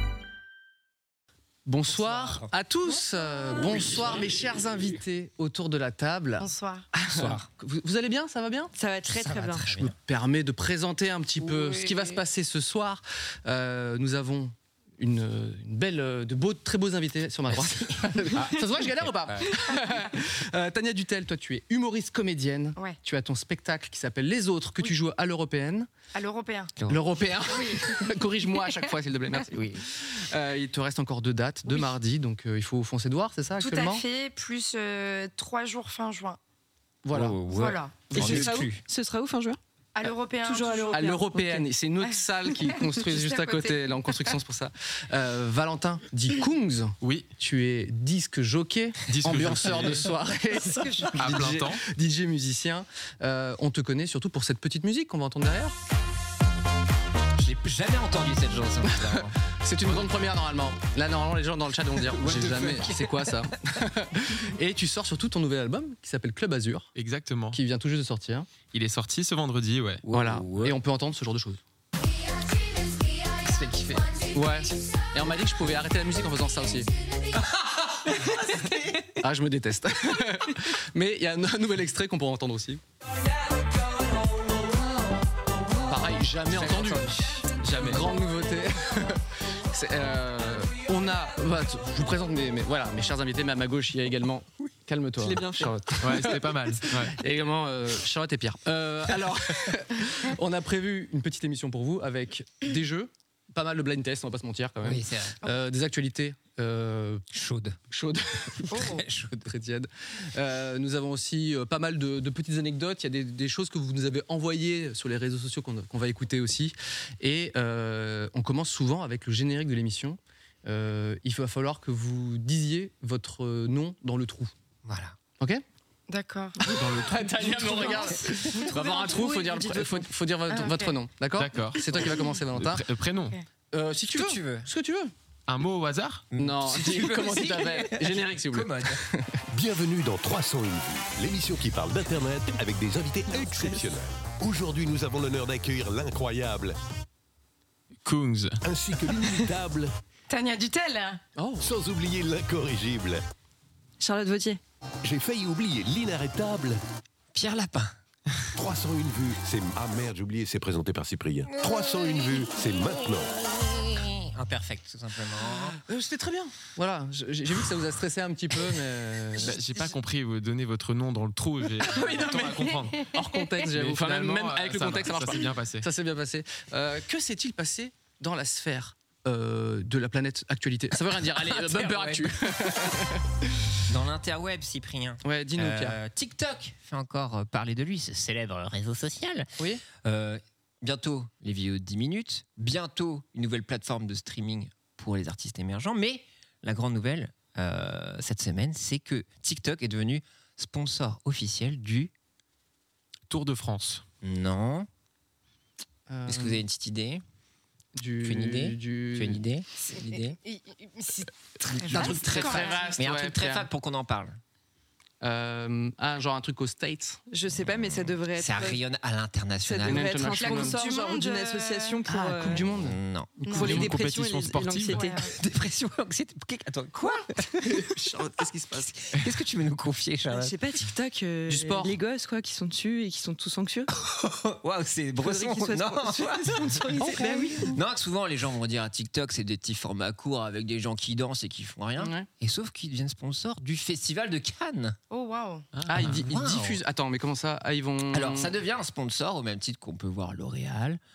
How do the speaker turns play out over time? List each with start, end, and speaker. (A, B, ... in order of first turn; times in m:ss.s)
0:01.7-0:06.5 A
0:01.9-0:02.5 B
0:06.4-0:06.9 C
0:07.0-0:08.7 A
0:07.1-0:07.5 B
0:08.7-0:09.7 D
0:09.2-0:10.0 B
0:09.8-0:25.9 A
0:11.4-0:12.2 B
0:18.3-0:19.8 B
0:26.1-0:26.7 C
0:26.9-0:34.0 A
0:27.5-0:28.8 C
0:29.5-0:29.8 B
0:33.6-0:36.4 C
0:37.0-0:37.4 A
0:37.1-0:38.8 B
0:37.5-0:38.0 C
0:38.1-0:38.5 A
0:38.1-0:39.6 D
0:40.0-0:41.1 C
0:40.4-0:41.7 D
0:40.9-0:55.8 A
0:42.1-0:44.3 C
0:47.0-0:47.3 E
0:49.1-0:50.1 E
0:51.2-0:51.8 E
0:57.4-0:59.3 B
0:58.9-1:06.9 A
1:02.1-1:03.5 B
1:07.0-1:07.6 E
1:07.5-1:08.5 A
1:08.7-1:10.0 E
1:10.1-1:10.7 B
1:10.1-1:11.6 A
1:13.3-1:14.0 B
1:14.3-1:16.9 A
1:18.3-1:22.8 A
1:18.4-1:19.0 B
1:25.9-1:47.2 A
1:26.5-1:27.1 B
1:27.6-1:28.1 E
1:35.2-1:35.7 B
1:36.0-1:37.2 E
1:44.8-1:45.4 B
1:47.3-1:47.8 B
1:47.9-1:48.8 A
1:48.7-1:49.5 B
1:49.5-2:04.5 A
2:04.8-2:05.2 B
2:06.1-2:06.6 C
2:06.6-2:12.9 A
2:07.4-2:10.1 D
2:10.5-2:11.0 C
2:11.4-2:11.8 E
2:12.5-2:13.4 E
2:13.7-2:15.1 A
2:14.1-2:14.7 B
2:15.5-2:16.2 E
2:16.3-2:19.0 B
2:16.4-2:19.4 A
2:19.5-2:26.8 F
2:28.0-2:28.6 E
2:28.6-2:29.9 F
2:30.3-2:31.2 C
2:31.4-2:31.7 A
2:31.6-2:33.2 F
2:34.0-2:34.6 D
2:35.0-2:36.8 F
2:37.3-2:38.0 B
2:38.6-2:43.3 F
2:41.6-2:42.4 B
2:43.4-2:45.8 B
2:45.7-2:49.6 A
2:49.4-2:53.1 E
2:51.8-3:03.2 A
2:53.7-2:55.9 E
3:01.3-3:03.0 B
3:03.9-3:22.1 B
3:05.2-3:06.0 A
3:23.3-3:24.0 E
3:24.2-3:24.9 B
3:26.1-3:26.6 A
3:26.3-3:27.2 B
3:28.0-3:29.4 A
3:28.2-3:30.4 B
3:29.8-3:33.0 C
3:31.6-3:34.4 B
3:31.9-3:33.7 A
3:35.2-3:37.2 A
3:37.3-3:38.8 D
3:37.5-3:40.3 B
3:39.6-3:42.7 D
3:39.8-3:40.8 A
3:40.3-3:42.0 C
3:42.1-3:43.9 A
3:42.7-3:43.3 B
3:43.4-3:43.7 C
3:43.5-3:45.0 E
3:43.5-3:45.3 D
3:44.9-3:45.3 C
3:45.4-3:47.8 B
3:47.6-3:48.9 A
3:48.8-3:50.6 B
3:50.3-3:53.9 D
3:51.5-3:52.0 A
3:54.0-4:05.0 B
3:55.2-3:57.8 D
3:57.0-3:57.7 A
4:02.0-4:02.3 A
4:05.1-4:05.7 C
4:05.8-4:06.3 E
4:05.9-4:08.5 A
4:06.0-4:06.8 B
4:08.1-4:11.0 B